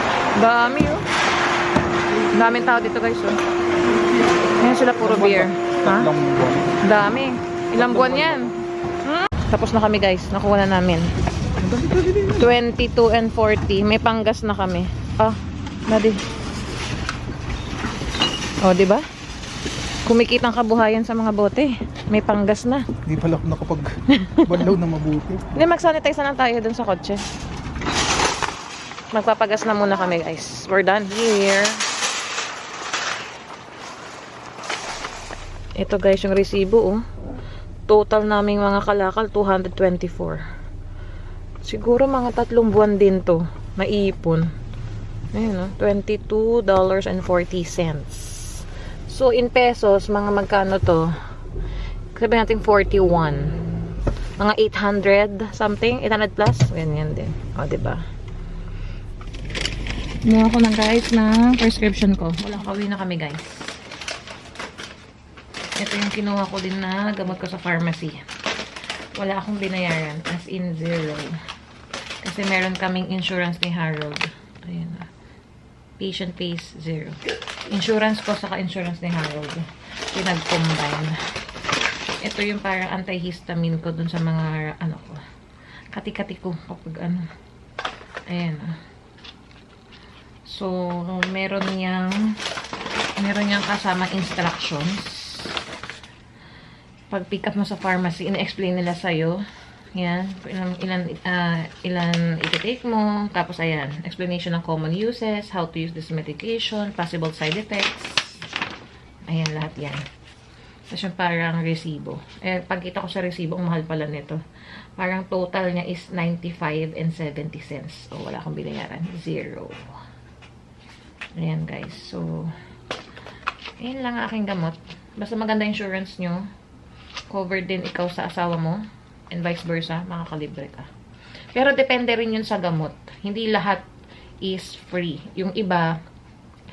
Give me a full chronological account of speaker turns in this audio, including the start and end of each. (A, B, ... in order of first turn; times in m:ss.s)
0:00.4-0:01.0 A
0:02.3-0:03.4 A
0:04.0-0:04.4 B
0:04.6-0:06.1 A
0:05.0-0:06.8 B
0:06.8-0:08.5 A
0:07.7-0:08.5 B
0:09.0-0:11.1 A
0:11.6-0:12.5 B
0:12.4-0:16.2 A
0:18.6-0:19.0 A
0:20.0-0:22.9 A
0:23.0-0:25.4 B
0:24.1-0:24.7 A
0:25.5-0:27.2 A
0:29.1-0:31.8 A
0:35.8-0:37.0 A
0:37.9-0:40.4 A
0:41.6-0:44.5 A
0:45.3-0:51.1 A
0:52.1-0:53.5 A
0:54.4-0:58.0 A
1:00.2-1:03.8 A
1:05.8-1:08.2 A
1:09.2-1:11.4 A
1:12.2-1:15.1 A
1:16.0-1:21.2 A
1:22.2-1:25.2 A
1:25.9-1:27.3 A
1:28.3-1:28.8 A
1:30.5-1:32.4 A
1:33.2-1:35.6 A
1:37.1-1:39.4 A
1:40.0-1:48.5 A
1:49.3-1:50.0 A
1:50.9-1:54.4 A
1:55.0-2:00.0 A
2:01.4-2:02.5 A
2:03.8-2:06.4 A
2:07.3-2:08.8 A
2:09.3-2:10.9 A
2:11.5-2:13.8 A
2:14.4-2:15.9 A